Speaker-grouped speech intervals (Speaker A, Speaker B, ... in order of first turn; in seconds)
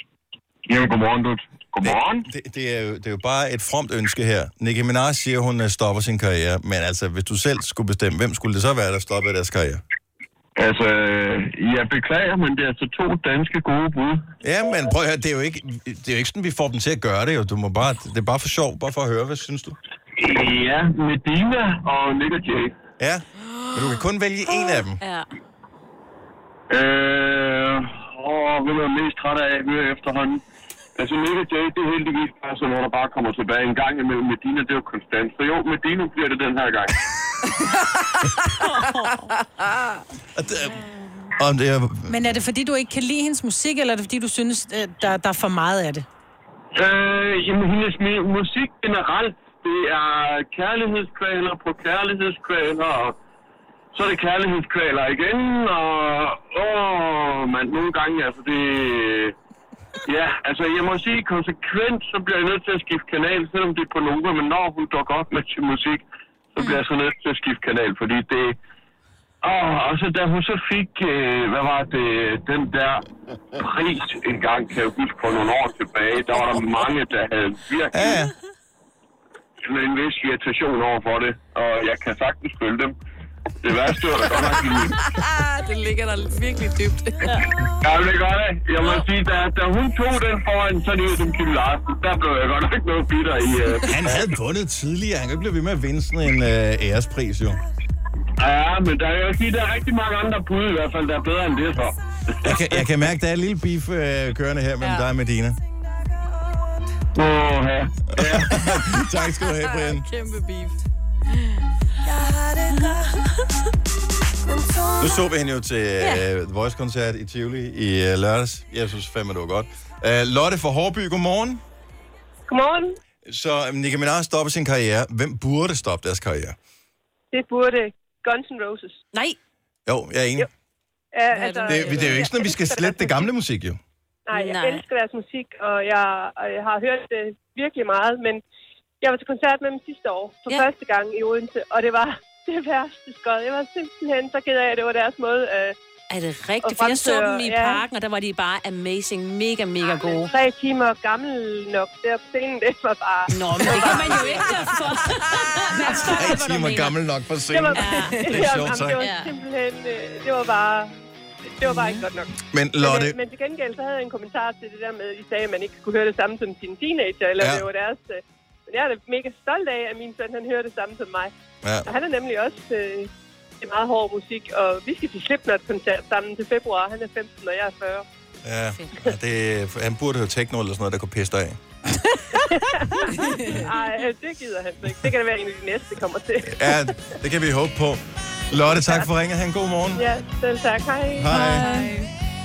Speaker A: 0.7-2.3, 10.6-14.3, 20.2-22.8, 26.7-30.4, 31.0-37.0, 46.8-53.2, 53.9-59.4, 60.0-66.0, 66.6-68.6, 69.4-73.0, 73.6-78.2, 79.6-82.9, 83.6-85.0, 87.8-94.2, 98.4-102.9, 107.1-108.5
Speaker B: 1.8-9.8, 14.4-19.8, 23.0-25.0, 40.4-40.9, 41.4-42.4, 77.9-78.3, 93.9-97.6, 102.4-105.6, 108.1-110.1, 115.0-121.6, 123.2-126.6, 129.9-130.5, 131.7-133.8, 156.1-159.0, 162.5-163.2, 167.4-167.7, 171.6-171.9, 178.4-181.6, 186.4-190.1, 191.2-191.6
Speaker C: 24.5-25.3, 38.6-39.4, 134.3-134.8, 146.1-150.3, 153.3-157.0, 157.7-159.3, 161.6-162.1, 191.6-191.9
Speaker D: 42.1-46.1, 191.3-192.0
Speaker E: 84.4-87.4, 104.8-105.1, 109.4-110.8, 131.3-132.3, 183.2-183.7
Speaker F: 122.5-123.0, 127.3-129.0, 131.1-133.3, 134.3-138.4, 139.0-145.8, 146.6-147.8, 149.8-154.7, 155.9-156.1, 157.5-160.9, 161.6-171.3, 171.8-173.1, 173.6-178.1, 182.4-186.9, 189.9-191.7